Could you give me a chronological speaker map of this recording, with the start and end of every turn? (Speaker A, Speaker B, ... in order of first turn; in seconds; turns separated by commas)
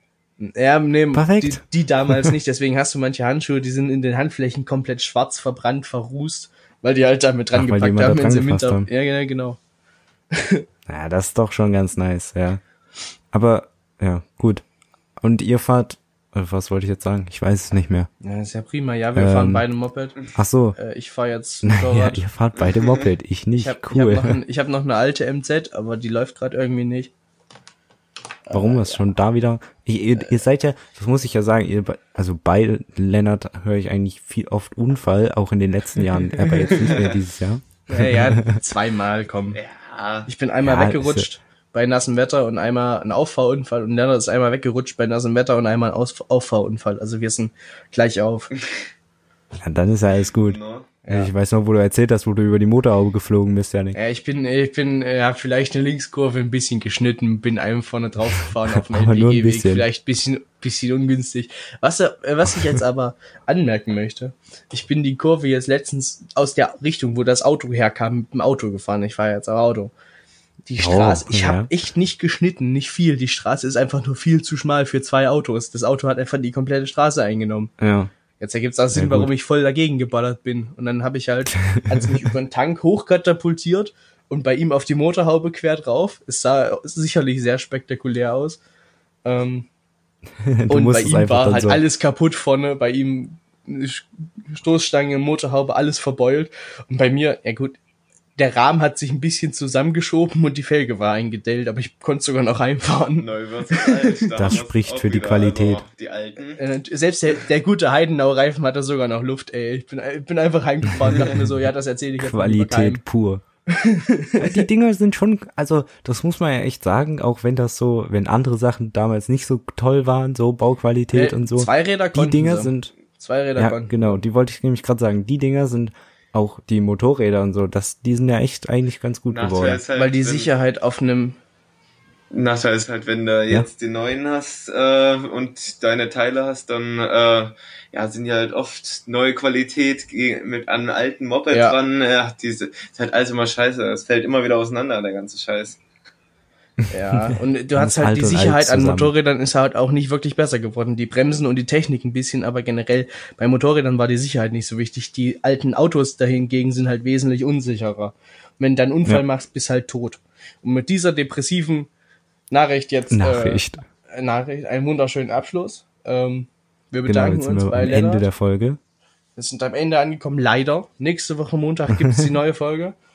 Speaker A: 0.4-9.6, Speaker B: 1.1-2.3, Speaker B: 7.5-8.9, Speaker A: 10.3-10.7, Speaker B: 10.9-12.6, Speaker B: 13.3-14.6, Speaker B: 15.2-18.1, Speaker A: 18.2-20.2, Speaker B: 19.1-19.6, Speaker B: 20.3-20.8, Speaker A: 20.8-22.2, Speaker B: 21.6-24.4, Speaker C: 22.7-23.1, Speaker A: 23.5-27.1, Speaker A: 28.5-29.0, Speaker B: 28.5-38.6, Speaker A: 36.5-36.7, Speaker C: 36.7-37.2, Speaker A: 37.9-39.6, Speaker C: 39.5-40.3, Speaker A: 40.3-48.5, Speaker B: 40.6-41.3, Speaker B: 49.6-54.0, Speaker C: 50.4-50.9, Speaker A: 51.0-51.3, Speaker A: 53.9-69.9, Speaker B: 58.8-59.9, Speaker A: 70.7-77.7, Speaker B: 70.8-71.7, Speaker B: 77.8-78.1, Speaker A: 78.4-88.6, Speaker B: 78.9-79.3, Speaker B: 81.5-82.1, Speaker A: 89.2-89.7, Speaker B: 90.4-91.8, Speaker A: 90.7-97.8, Speaker A: 98.4-104.2, Speaker C: 103.2-106.6, Speaker B: 104.4-105.8, Speaker A: 106.6-113.0, Speaker B: 112.2-113.4, Speaker A: 113.7-114.7, Speaker B: 114.4-122.9, Speaker A: 121.1-124.2, Speaker B: 123.6-129.8, Speaker C: 129.3-130.5, Speaker A: 129.9-131.4, Speaker C: 132.3-145.8, Speaker A: 141.5-141.8, Speaker A: 146.9-161.9, Speaker B: 147.3-149.1, Speaker A: 162.5-168.3, Speaker B: 163.1-163.8, Speaker B: 167.1-168.8, Speaker A: 169.4-172.9, Speaker B: 171.9-172.2